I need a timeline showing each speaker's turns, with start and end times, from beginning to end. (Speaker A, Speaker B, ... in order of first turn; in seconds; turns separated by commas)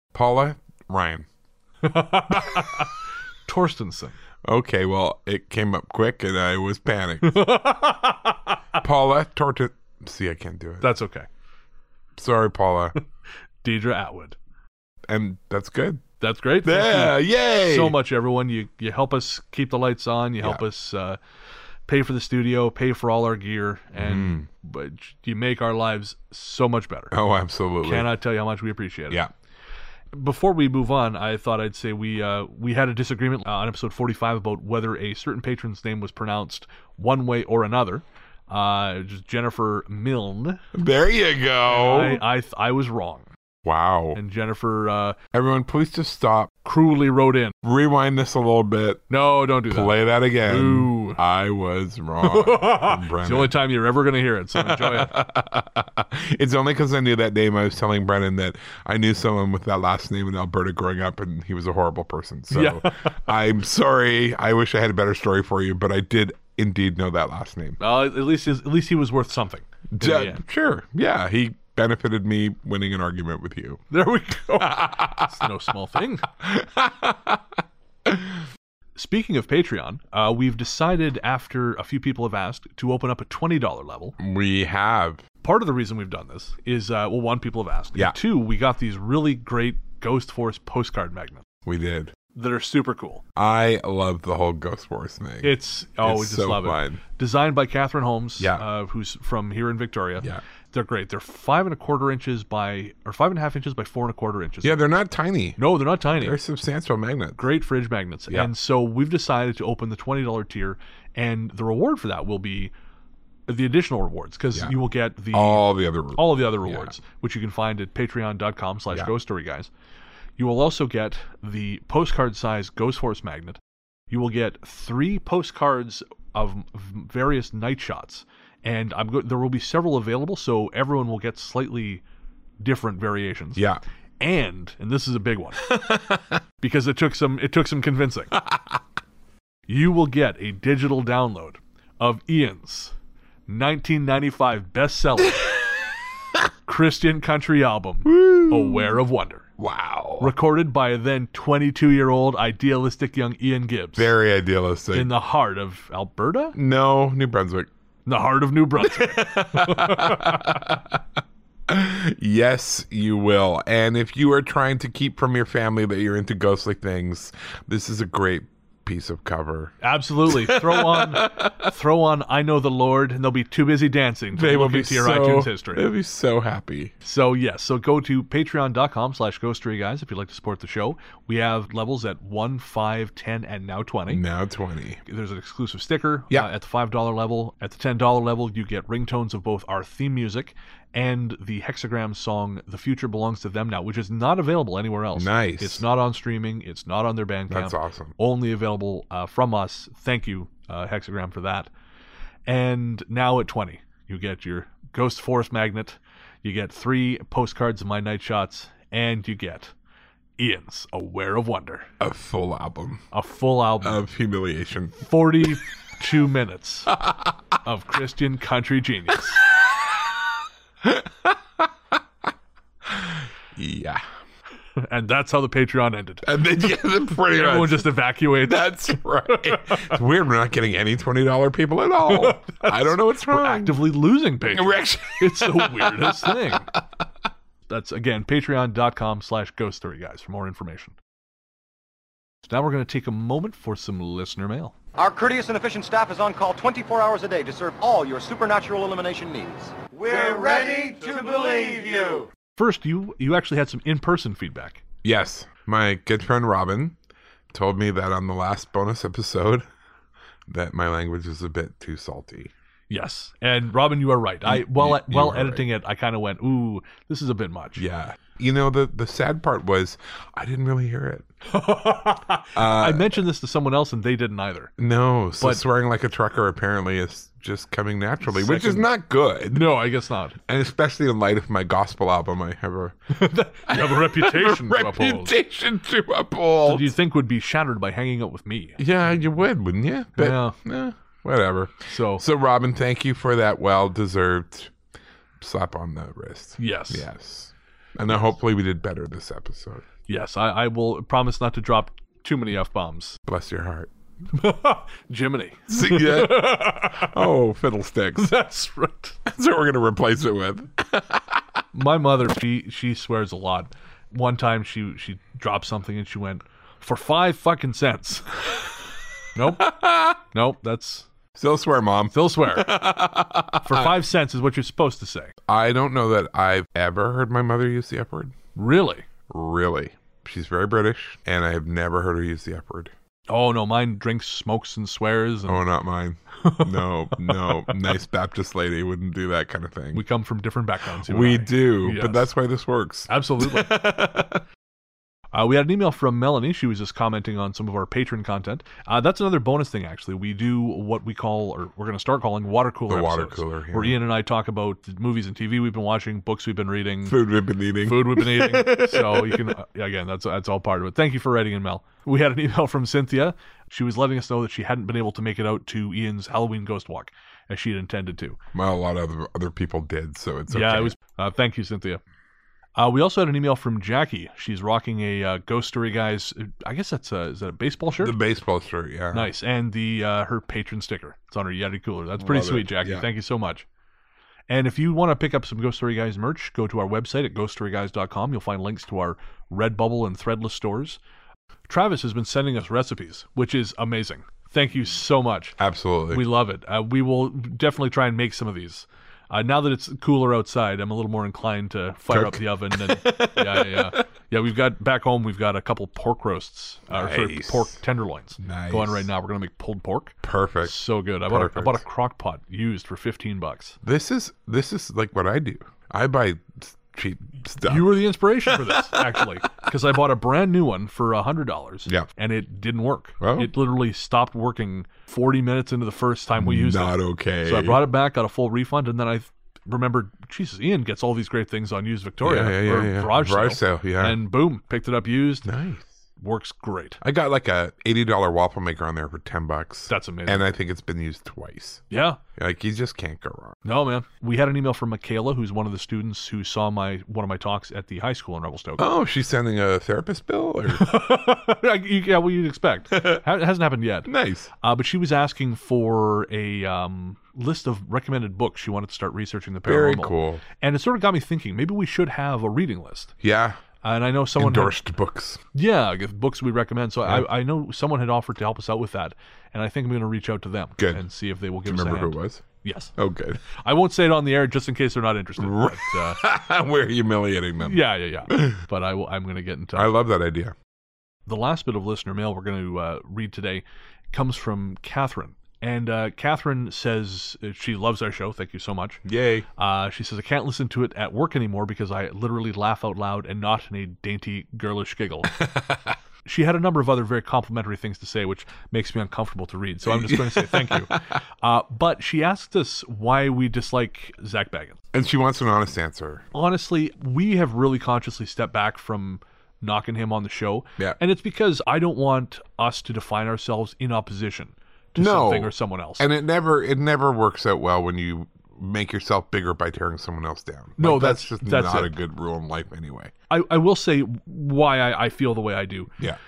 Speaker A: 0.1-1.3, Speaker B: 1.8-4.2, Speaker A: 2.3-2.7, Speaker A: 4.5-7.5, Speaker B: 7.2-8.8, Speaker A: 8.8-10.9, Speaker B: 10.8-11.3, Speaker A: 12.2-13.0, Speaker B: 13.6-14.4, Speaker A: 15.1-16.0, Speaker B: 16.2-21.2, Speaker A: 16.6-18.0, Speaker B: 21.9-27.1, Speaker A: 23.9-24.4, Speaker A: 27.1-28.1, Speaker B: 27.8-29.2, Speaker B: 30.1-40.6, Speaker A: 40.7-42.2, Speaker B: 41.7-43.3, Speaker A: 43.6-44.2, Speaker B: 44.1-45.1, Speaker A: 45.3-46.5, Speaker B: 46.6-47.5, Speaker A: 47.6-49.0, Speaker B: 49.1-51.2, Speaker A: 49.7-53.5, Speaker B: 52.2-55.2, Speaker A: 54.5-67.8, Speaker B: 62.5-63.3, Speaker B: 67.8-70.4, Speaker A: 69.9-73.8, Speaker B: 73.9-76.3, Speaker A: 74.5-75.5, Speaker A: 76.4-77.4, Speaker A: 78.1-78.3, Speaker B: 79.0-84.2, Speaker A: 84.2-85.2, Speaker B: 85.4-91.4, Speaker A: 91.6-92.1, Speaker B: 92.3-93.2, Speaker A: 93.3-97.0, Speaker B: 95.4-104.8, Speaker A: 98.4-98.6, Speaker A: 104.6-105.6, Speaker B: 105.6-106.4, Speaker A: 106.2-107.4, Speaker B: 107.4-112.7, Speaker B: 113.5-119.7, Speaker A: 115.3-116.9, Speaker B: 120.4-123.6, Speaker B: 124.1-132.0, Speaker B: 132.6-133.6, Speaker A: 133.6-133.8, Speaker B: 134.2-135.8, Speaker A: 135.7-136.2, Speaker B: 136.6-138.3, Speaker B: 139.7-142.9, Speaker B: 143.5-145.5, Speaker B: 146.7-149.5, Speaker A: 148.0-148.9, Speaker A: 149.6-150.3, Speaker B: 150.2-154.1, Speaker A: 153.9-155.1, Speaker B: 154.9-156.6, Speaker A: 156.5-157.7, Speaker B: 158.1-160.6, Speaker A: 158.8-161.0, Speaker A: 161.7-169.7, Speaker B: 169.8-175.8, Speaker A: 170.3-171.7, Speaker A: 174.3-176.9, Speaker B: 177.0-184.2, Speaker A: 184.1-185.0, Speaker B: 185.1-201.7, Speaker A: 195.1-195.8, Speaker A: 197.5-198.2, Speaker B: 202.4-209.7, Speaker B: 210.4-211.9, Speaker A: 212.0-213.0, Speaker B: 213.1-214.0, Speaker A: 213.8-215.5, Speaker B: 215.0-217.0, Speaker A: 217.0-217.3, Speaker B: 217.6-219.4, Speaker A: 219.6-220.0, Speaker A: 220.8-221.7, Speaker A: 222.8-224.0, Speaker B: 224.8-230.0, Speaker A: 226.2-233.8, Speaker B: 232.1-236.7, Speaker A: 234.5-236.8, Speaker B: 237.7-240.9, Speaker B: 242.4-244.7, Speaker C: 245.0-252.3, Speaker B: 252.6-254.8, Speaker A: 255.0-256.9, Speaker A: 257.5-259.7, Speaker A: 260.5-262.5, Speaker B: 262.9-267.8, Speaker A: 264.4-265.6, Speaker A: 267.8-271.3, Speaker B: 271.5-274.7, Speaker A: 272.5-273.2, Speaker A: 274.8-279.7, Speaker B: 278.3-278.9, Speaker B: 279.5-280.4, Speaker A: 280.5-283.1, Speaker B: 283.1-285.3, Speaker A: 283.6-286.9, Speaker B: 286.6-288.8, Speaker A: 288.8-294.7, Speaker B: 290.2-290.6, Speaker B: 291.9-292.2, Speaker A: 295.4-299.8, Speaker B: 296.6-297.1, Speaker B: 300.1-303.2, Speaker A: 303.3-303.9, Speaker B: 304.3-307.3, Speaker A: 305.7-308.3, Speaker B: 308.2-309.2, Speaker A: 309.2-311.6, Speaker B: 311.7-318.7, Speaker B: 319.3-321.1, Speaker A: 319.6-320.2, Speaker A: 321.4-323.9, Speaker B: 322.1-322.8, Speaker B: 323.6-325.3, Speaker A: 325.5-328.3, Speaker B: 328.6-329.1, Speaker A: 329.3-332.9, Speaker B: 333.3-335.6, Speaker A: 335.4-340.0, Speaker B: 336.4-337.7, Speaker B: 339.9-342.3, Speaker A: 341.1-344.4, Speaker B: 343.1-344.1, Speaker B: 345.3-357.2, Speaker A: 352.9-354.0, Speaker A: 357.1-359.6, Speaker B: 357.8-368.4, Speaker A: 368.5-370.9, Speaker B: 370.5-372.0, Speaker B: 372.8-378.1, Speaker A: 378.0-379.3, Speaker B: 379.1-383.6, Speaker A: 382.2-383.1, Speaker B: 384.5-391.0, Speaker B: 391.7-395.6, Speaker A: 395.6-396.2, Speaker B: 396.1-413.8, Speaker A: 402.1-404.0, Speaker A: 406.9-407.7, Speaker A: 408.4-409.1, Speaker A: 410.2-411.8, Speaker A: 413.8-417.9, Speaker B: 417.6-435.5, Speaker A: 418.5-419.6, Speaker A: 423.2-423.5, Speaker A: 426.4-427.8, Speaker A: 432.2-434.2, Speaker A: 435.4-435.9, Speaker B: 436.2-437.0, Speaker A: 437.0-441.8, Speaker B: 439.9-440.5, Speaker B: 441.9-442.2, Speaker A: 442.4-443.6, Speaker B: 443.6-448.9, Speaker A: 448.8-450.9, Speaker B: 450.7-454.1, Speaker A: 452.9-453.2, Speaker A: 454.0-454.5, Speaker B: 454.6-463.1, Speaker A: 459.6-460.4, Speaker A: 463.2-463.6, Speaker B: 463.8-464.7, Speaker A: 464.4-465.4, Speaker B: 465.5-472.9, Speaker A: 470.8-471.0, Speaker A: 471.6-472.4, Speaker A: 473.0-473.5, Speaker B: 473.5-476.2, Speaker A: 475.4-478.6, Speaker B: 477.6-480.0, Speaker A: 479.7-480.5, Speaker B: 481.2-489.0, Speaker A: 489.1-489.4, Speaker B: 489.6-495.5, Speaker A: 495.4-495.8, Speaker B: 496.2-504.8, Speaker A: 499.9-501.0, Speaker A: 504.9-506.2, Speaker B: 506.3-516.1, Speaker A: 515.0-523.1, Speaker B: 520.8-521.9, Speaker B: 523.3-525.9